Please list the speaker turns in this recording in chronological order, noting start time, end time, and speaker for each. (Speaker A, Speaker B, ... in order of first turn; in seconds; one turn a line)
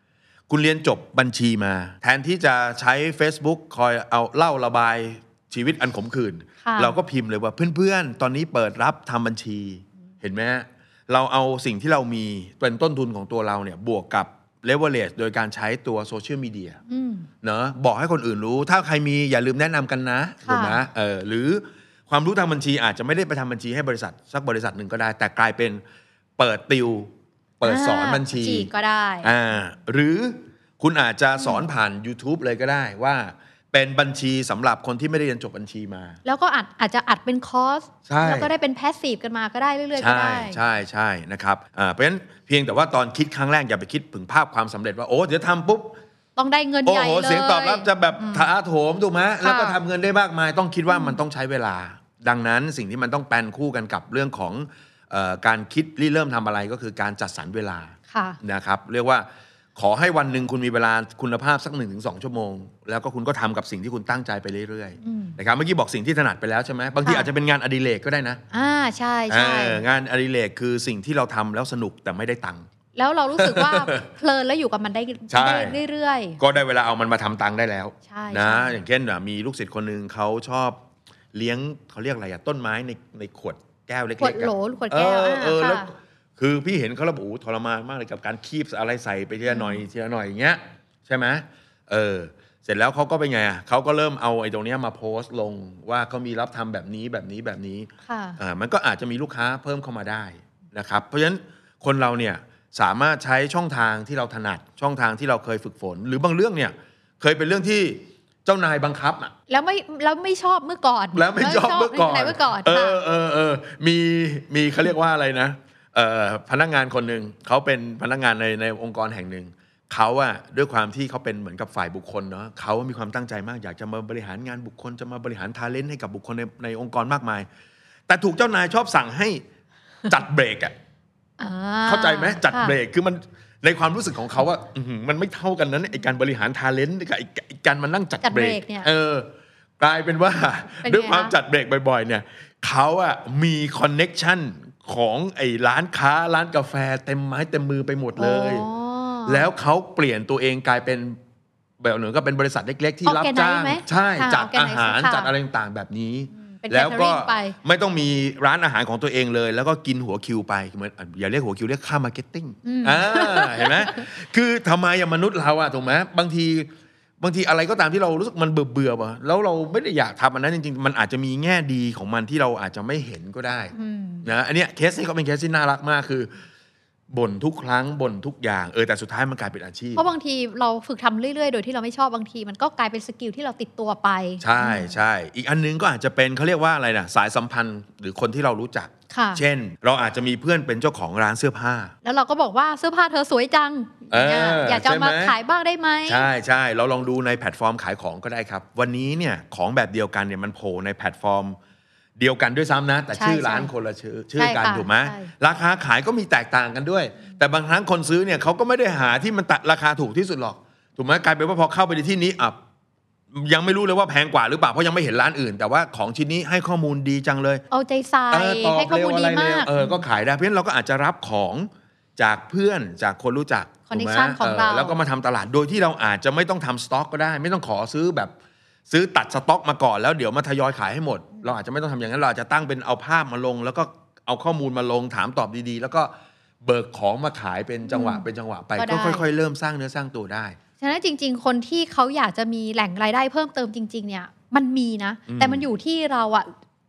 Speaker A: 0.5-16.8
Speaker B: 6.6-7.0
Speaker B: 16.9-17.3
Speaker A: 17.4-25.8
Speaker B: 20.4-20.8
Speaker A: 26.4-28.7
Speaker B: 27.6-29.3
Speaker A: 29.2-36.2
Speaker B: 31.4-31.6
Speaker B: 36.2-40.6
Speaker A: 38.1-38.5
Speaker A: 40.0-46.0
Speaker B: 46.4-48.5
Speaker A: 46.8-68.4
Speaker B: 49.4-49.8
Speaker B: 50.9-51.2
Speaker B: 58.1-58.4
Speaker B: 65.0-65.4
Speaker B: 67.0-67.3
Speaker B: 68.5-69.8
Speaker A: 69.3-72.7
Speaker B: 72.9-76.4
Speaker A: 73.4-74.0
Speaker A: 75.3-75.8
Speaker A: 76.4-80.8
Speaker B: 78.1-78.8
Speaker A: 81.3-109.3
Speaker B: 84.2-85.9
Speaker B: 89.5-89.8
Speaker B: 98.0-98.4
Speaker B: 109.5-113.0
Speaker A: 111.1-127.5
Speaker A: 128.1-129.4
Speaker A: 130.1-130.7
Speaker B: 131.4-132.7
Speaker A: 131.8-148.7
Speaker B: 138.2-138.9
Speaker B: 140.8-141.3
Speaker B: 148.2-149.5
Speaker A: 149.2-151.2
Speaker A: 151.8-176.4
Speaker B: 153.1-155.3
Speaker B: 156.3-157.6
Speaker B: 162.6-164.0
Speaker B: 173.7-174.3
Speaker A: 177.1-180.1
Speaker B: 179.9-184.9
Speaker A: 184.4-191.9
Speaker B: 189.1-189.4
Speaker B: 192.0-196.2
Speaker A: 194.1-195.3
Speaker A: 196.1-201.6
Speaker A: 202.2-212.6
Speaker B: 203.1-203.7
Speaker B: 204.4-205.3
Speaker A: 213.3-217.6
Speaker B: 217.7-220.0
Speaker A: 218.3-228.3
Speaker B: 223.9-225.0
Speaker A: 228.9-240.6
Speaker B: 237.9-238.2
Speaker B: 238.8-239.2
Speaker B: 240.8-246.5
Speaker A: 245.3-245.6